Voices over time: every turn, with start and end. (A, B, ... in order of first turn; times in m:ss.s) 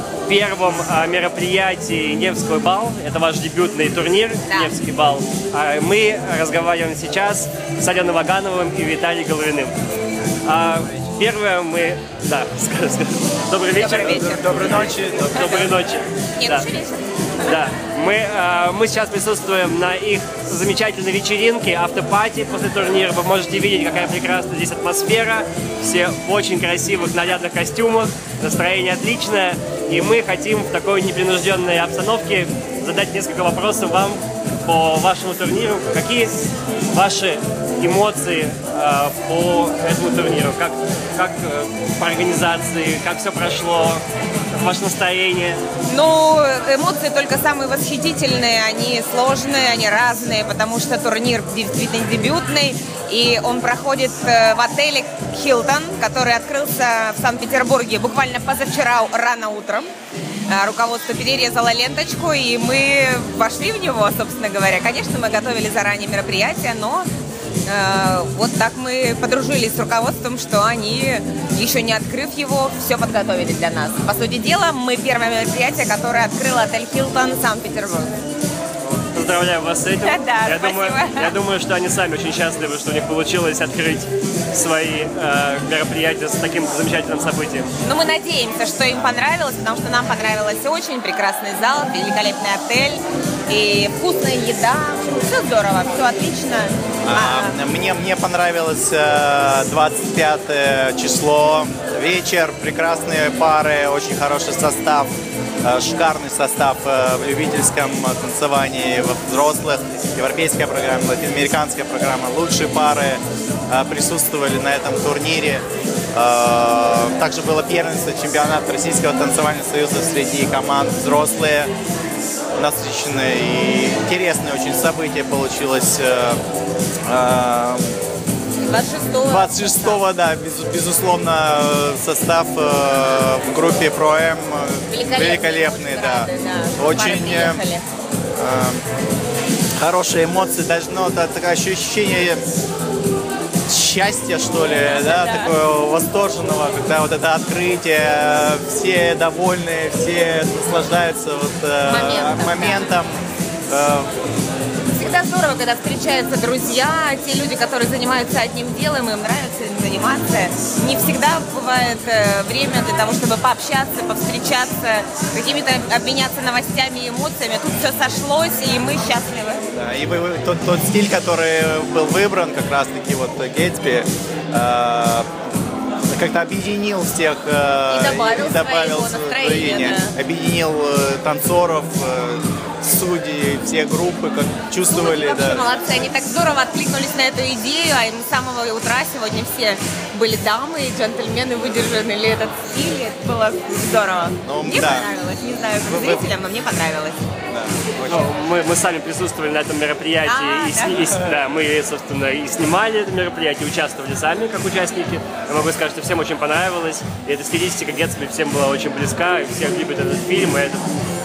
0:00.2-0:09.7 A
0:04.5-0:04.8 B
0:10.4-0:16.7 A
0:13.8-0:15.6 B
0:14.0-0:15.7 C
0:16.4-0:17.5 B
0:17.4-0:36.3 A
0:36.9-0:45.6 A
0:45.9-0:59.9 B
1:00.5-1:07.1 B
1:07.6-1:18.2 B
1:18.8-1:27.7 A
1:20.0-1:21.4 B
1:27.8-1:37.6 B
1:37.0-1:45.1 C
1:45.6-2:01.7 C
2:02.6-2:06.4 C
2:07.0-2:07.9 C
2:08.6-2:10.0 B
2:09.2-2:17.6 C
2:14.9-2:17.9 B
2:18.4-2:18.8 C
2:19.8-2:22.4 C
2:23.7-2:34.1 C
2:24.9-2:25.5 B
2:31.9-2:32.8 B
2:35.0-2:49.6 B
2:49.7-2:55.5 C
2:56.1-3:05.7 C
2:57.9-3:00.2 B
3:04.9-3:17.2 B
3:14.4-3:15.1 C
3:15.8-3:16.3 C
3:17.5-3:18.3 C
3:18.0-3:30.9 A
3:20.2-3:21.2 B